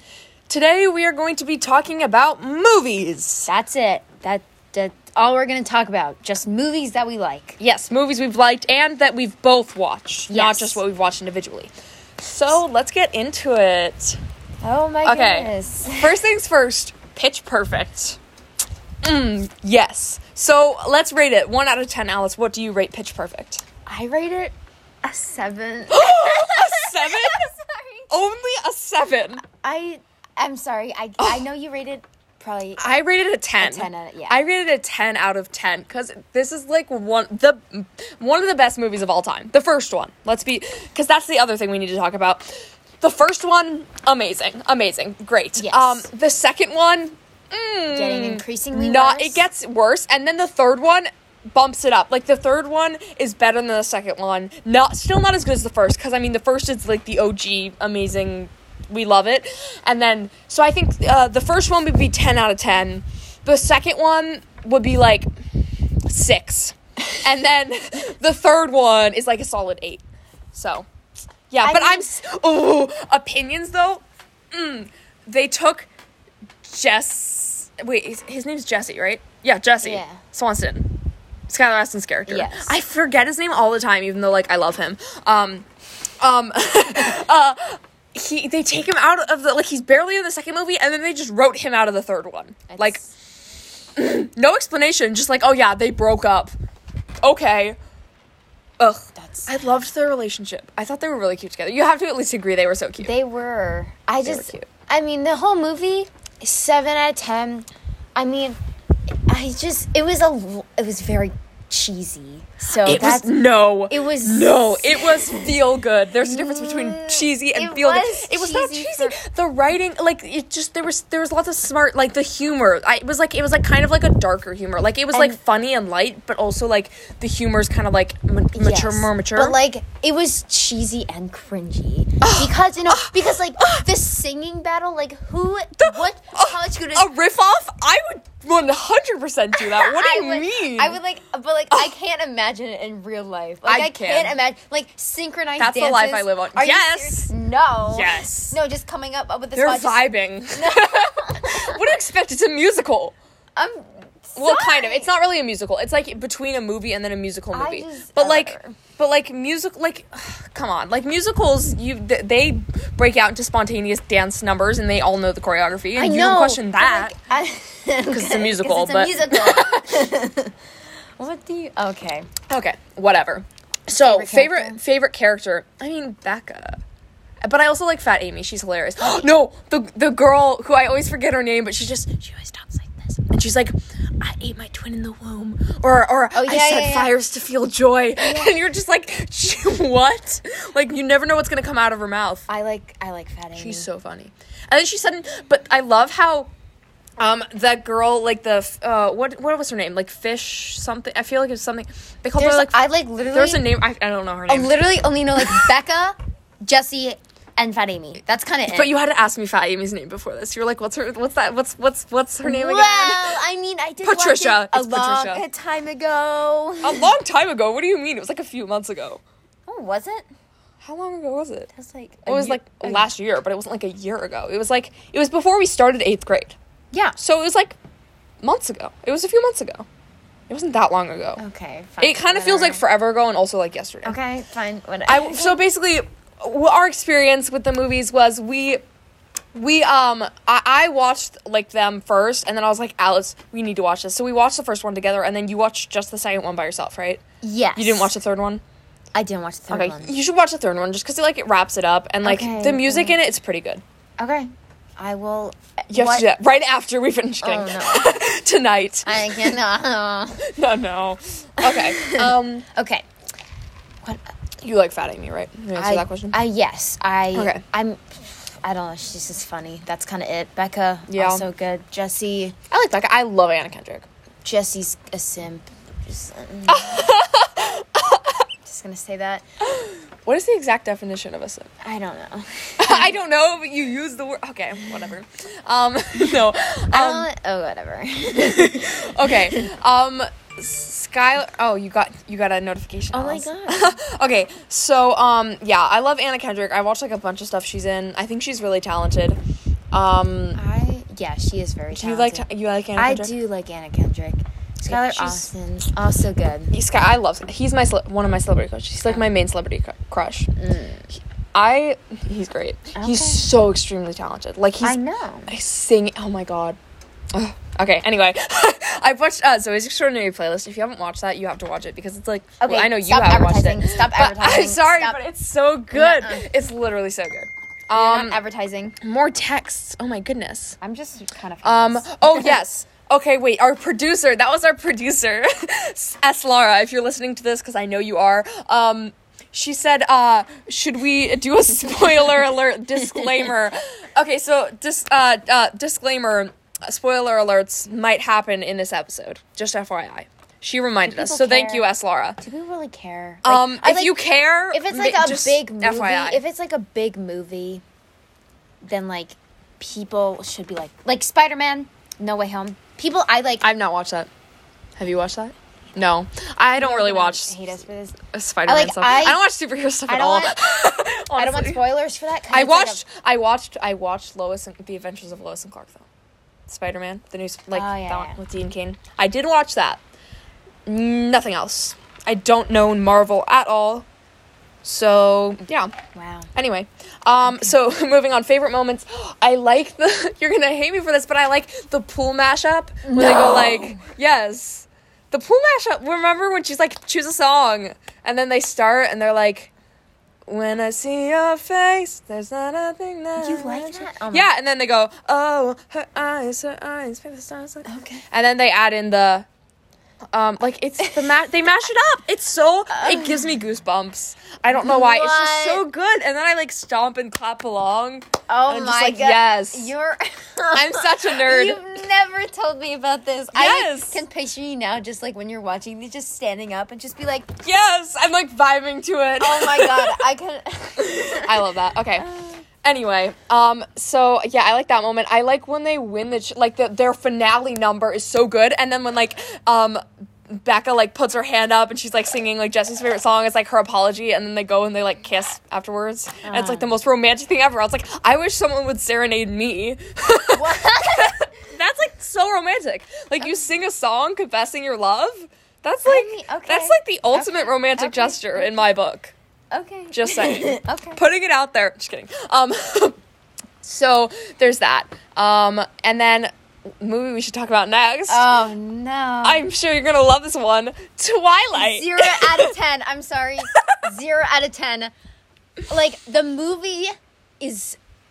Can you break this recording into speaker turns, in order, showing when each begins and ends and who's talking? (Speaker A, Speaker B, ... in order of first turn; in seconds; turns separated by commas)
Speaker A: 0.5-3.5, Speaker B: 3.4-7.6, Speaker A: 7.6-14.2, Speaker B: 10.3-10.8, Speaker B: 14.6-16.2, Speaker A: 15.0-18.2, Speaker A: 19.0-23.6, Speaker B: 23.9-28.1, Speaker A: 25.9-27.5, Speaker A: 28.1-29.4, Speaker B: 29.5-32.9, Speaker A: 31.2-31.4, Speaker A: 32.8-42.5, Speaker B: 33.6-34.4, Speaker A: 43.0-65.3, Speaker B: 45.5-46.1, Speaker B: 47.9-49.4, Speaker A: 66.1-70.9, Speaker A: 71.5-75.9, Speaker B: 71.6-72.1, Speaker A: 76.6-80.9, Speaker B: 79.8-80.2, Speaker A: 81.5-85.7, Speaker B: 82.3-82.7, Speaker A: 86.2-93.0, Speaker B: 92.7-93.1, Speaker A: 93.9-96.5, Speaker A: 97.2-97.8, Speaker A: 98.8-103.1, Speaker B: 99.2-99.9, Speaker B: 103.0-108.6, Speaker A: 104.2-104.7, Speaker B: 109.3-113.3, Speaker A: 112.8-129.6, Speaker B: 113.9-115.6, Speaker B: 116.2-119.2, Speaker B: 125.1-125.4, Speaker B: 128.5-137.1, Speaker A: 132.2-133.8, Speaker A: 135.8-141.0, Speaker B: 139.6-151.8, Speaker A: 143.6-144.4, Speaker A: 145.6-147.3, Speaker A: 147.9-148.6, Speaker A: 149.5-153.1, Speaker B: 153.6-155.1, Speaker A: 154.3-167.1, Speaker B: 157.5-158.8, Speaker B: 165.9-170.5, Speaker A: 168.1-169.9, Speaker B: 171.2-172.3, Speaker A: 172.5-176.8, Speaker B: 173.9-174.8, Speaker A: 177.4-192.5, Speaker B: 179.0-179.3, Speaker B: 186.3-187.1, Speaker B: 188.2-188.5, Speaker B: 192.5-193.9, Speaker A: 193.5-196.5, Speaker A: 197.2-202.8, Speaker B: 202.4-203.6, Speaker A: 203.3-204.8, Speaker B: 204.5-208.9, Speaker A: 208.7-213.4, Speaker B: 212.4-217.1, Speaker A: 214.0-215.4, Speaker A: 216.8-219.2, Speaker B: 219.7-220.3, Speaker A: 220.8-221.7, Speaker B: 221.7-223.1, Speaker A: 222.3-226.6, Speaker B: 226.9-227.2, Speaker A: 227.2-227.8, Speaker A: 228.4-229.8, Speaker A: 230.5-231.4, Speaker B: 231.4-232.8, Speaker A: 232.0-234.2, Speaker B: 234.0-235.6, Speaker A: 235.1-238.8, Speaker A: 239.5-247.2, Speaker B: 247.4-248.1, Speaker A: 247.8-248.6, Speaker B: 249.1-250.1, Speaker A: 249.7-253.8, Speaker B: 252.2-253.2, Speaker B: 254.2-256.3, Speaker A: 255.9-259.6, Speaker B: 257.4-258.2, Speaker B: 259.0-260.4, Speaker A: 260.4-262.6, Speaker B: 261.6-263.0, Speaker A: 264.6-266.4, Speaker B: 265.7-272.6, Speaker A: 267.3-267.6, Speaker A: 271.1-271.4, Speaker A: 272.7-274.1, Speaker B: 274.4-277.1, Speaker A: 276.7-278.4, Speaker B: 278.6-279.4, Speaker A: 279.6-281.7, Speaker B: 281.8-283.2, Speaker A: 282.8-287.3, Speaker B: 286.9-289.7, Speaker A: 288.3-299.4, Speaker B: 293.1-294.0, Speaker A: 299.9-300.6, Speaker B: 300.5-306.7, Speaker A: 301.9-303.3, Speaker A: 304.8-305.5, Speaker A: 306.7-310.5, Speaker B: 310.6-311.1, Speaker A: 311.5-316.8, Speaker B: 312.9-313.4, Speaker B: 314.8-315.5, Speaker A: 317.3-328.4, Speaker B: 322.6-325.2, Speaker B: 325.9-326.5, Speaker B: 327.9-329.0, Speaker A: 329.0-330.8, Speaker B: 330.8-332.6, Speaker A: 331.6-352.4, Speaker B: 351.1-351.9, Speaker B: 352.4-357.8, Speaker A: 353.4-356.4, Speaker B: 358.8-363.7, Speaker A: 363.6-364.3, Speaker A: 365.0-367.6, Speaker B: 366.8-369.4, Speaker A: 368.3-371.8, Speaker B: 370.1-370.7, Speaker B: 371.3-373.0, Speaker A: 372.5-376.1, Speaker A: 376.7-380.0, Speaker B: 377.7-378.4, Speaker A: 380.9-384.1, Speaker A: 384.8-385.9, Speaker B: 386.1-386.5, Speaker A: 386.5-399.7, Speaker B: 387.5-387.7, Speaker B: 393.0-394.0, Speaker A: 400.4-409.4, Speaker B: 403.4-404.5, Speaker B: 407.8-408.2, Speaker A: 410.3-419.9, Speaker B: 412.9-413.4, Speaker B: 414.7-415.8, Speaker B: 418.5-427.5, Speaker A: 420.7-421.8, Speaker A: 423.5-424.2, Speaker A: 427.6-430.2, Speaker B: 429.4-432.6, Speaker A: 431.0-432.2, Speaker A: 432.8-459.3, Speaker B: 446.4-446.9, Speaker B: 450.5-451.5, Speaker B: 456.0-458.9, Speaker B: 459.7-461.2, Speaker A: 460.1-463.2, Speaker A: 463.8-468.6, Speaker B: 468.3-469.6, Speaker A: 469.4-472.7, Speaker B: 471.7-475.1, Speaker B: 475.9-478.0